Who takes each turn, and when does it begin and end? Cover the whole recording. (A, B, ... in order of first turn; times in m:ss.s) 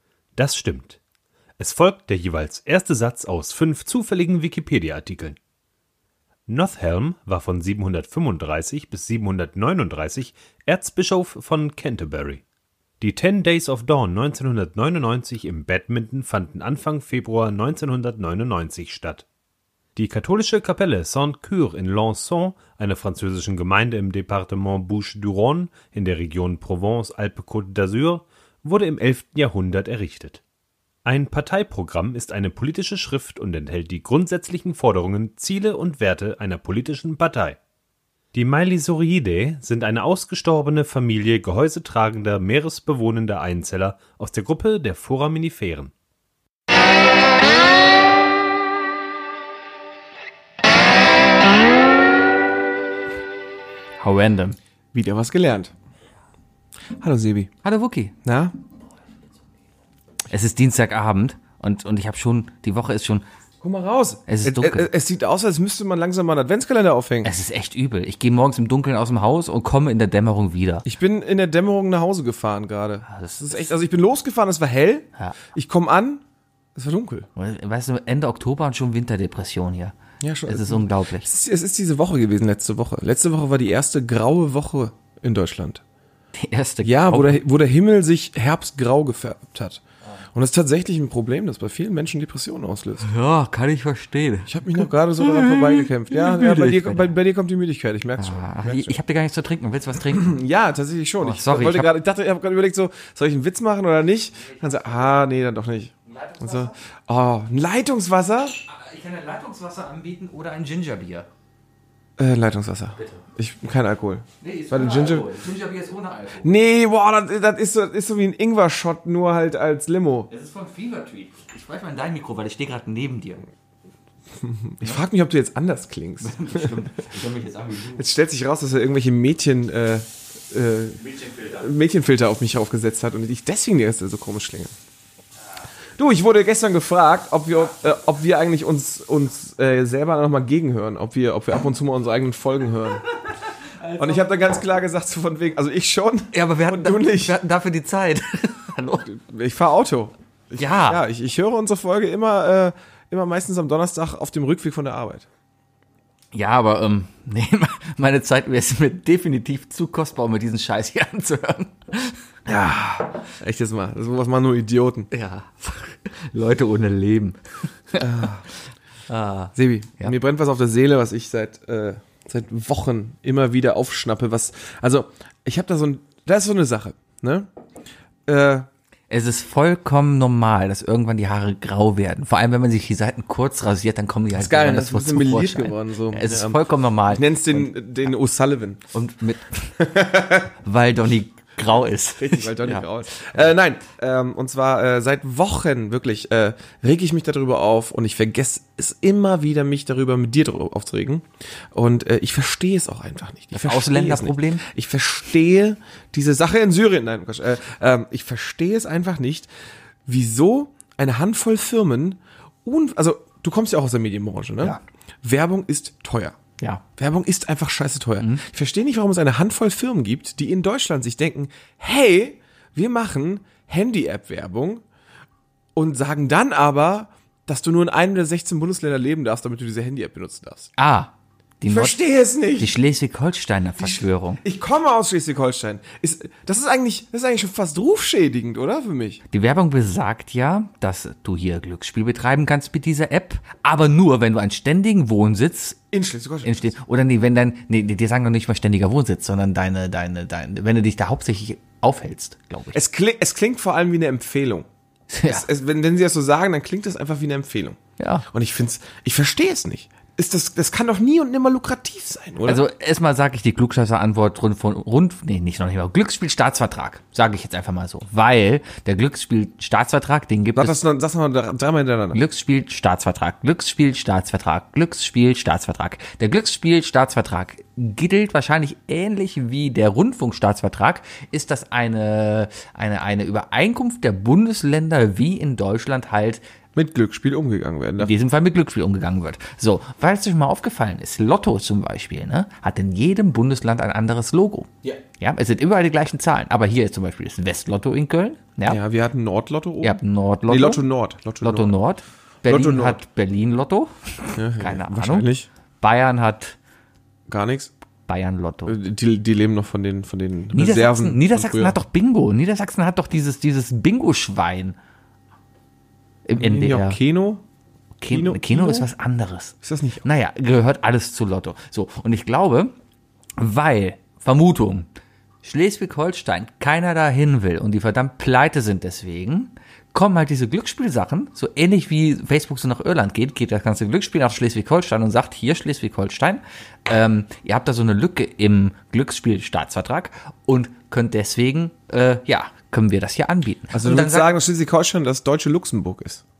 0:00.4-0:01.0 A
0:01.6-0:05.4 A
0:06.5-0:12.4 A
0:13.0-0:19.2 A
0:20.0-0:30.4 A
0:31.0-0:37.6 A
0:38.3-0:45.9 A
0:54.0-0:54.6 B
0:54.9-0:55.7 C
0:57.0-0:57.5 C
0:57.6-0:58.1 B
0:58.2-0:58.5 C
1:00.3-1:03.2 B
1:03.6-1:07.3 C
1:04.3-1:04.9 B
1:07.2-1:10.9 B
1:10.8-1:16.2 C
1:13.1-1:13.7 B
1:16.8-1:17.3 C
1:17.4-1:20.0 B
1:20.2-1:25.8 C
1:20.5-1:21.3 B
1:26.4-1:27.4 B
1:26.8-1:29.8 C
1:30.3-1:33.1 C
1:33.0-1:37.2 B
1:34.5-1:39.0 C
1:38.2-1:40.4 B
1:40.1-1:48.6 C
1:41.2-1:41.9 B
1:46.1-1:46.7 B
1:48.7-1:51.3 B
1:52.2-1:55.4 C
1:53.0-1:53.2 B
1:54.4-1:56.5 B
1:56.4-2:00.3 C
2:00.3-2:03.5 B
2:04.4-2:07.0 C
2:06.2-2:08.0 B
2:08.0-2:14.7 C
2:16.0-2:23.1 C
2:24.0-2:27.4 C
2:26.3-2:29.1 B
2:29.1-2:35.3 C
2:30.6-2:31.0 B
2:36.3-2:43.1 B
2:42.5-2:42.8 C
2:43.3-2:45.1 C
2:45.1-2:48.4 B
2:48.0-2:48.4 C
2:49.1-2:50.2 B
2:49.6-2:57.5 C
2:58.3-2:58.7 C
2:59.1-3:07.7 B
3:04.3-3:08.8 C
3:08.9-3:09.8 B
3:09.8-3:10.5 C
3:10.6-3:12.9 B
3:12.2-3:29.5 C
3:23.5-3:24.7 B
3:30.1-3:36.4 C
3:37.0-3:44.8 C
3:45.8-3:50.7 C
3:50.8-3:52.0 B
3:51.7-3:52.8 C
3:52.6-3:54.4 B
3:53.8-3:59.2 C
3:59.3-4:05.8 B
4:05.9-4:06.7 C
4:06.4-4:12.8 B
4:12.7-4:14.7 C
4:15.1-4:15.4 B
4:15.3-4:22.6 C
4:18.0-4:18.2 B
4:22.4-4:30.8 B
4:30.6-4:32.2 C
4:32.1-4:46.4 B
4:46.8-4:48.1 C
4:48.0-4:58.8 B
4:58.7-5:01.8 C
4:59.8-5:00.8 B
5:01.4-5:05.3 B
5:02.4-5:03.0 C
5:04.4-5:05.5 C
5:05.8-5:06.6 B
5:07.3-5:07.7 C
5:08.1-5:08.8 B
5:08.7-5:11.8 C
5:10.5-5:14.8 B
5:16.3-5:17.0 B
5:16.4-5:17.4 C
5:18.0-5:22.7 B
5:18.1-5:18.9 C
5:19.6-5:20.0 C
5:23.4-5:24.9 B
5:25.4-5:44.3 B
5:43.7-5:46.2 C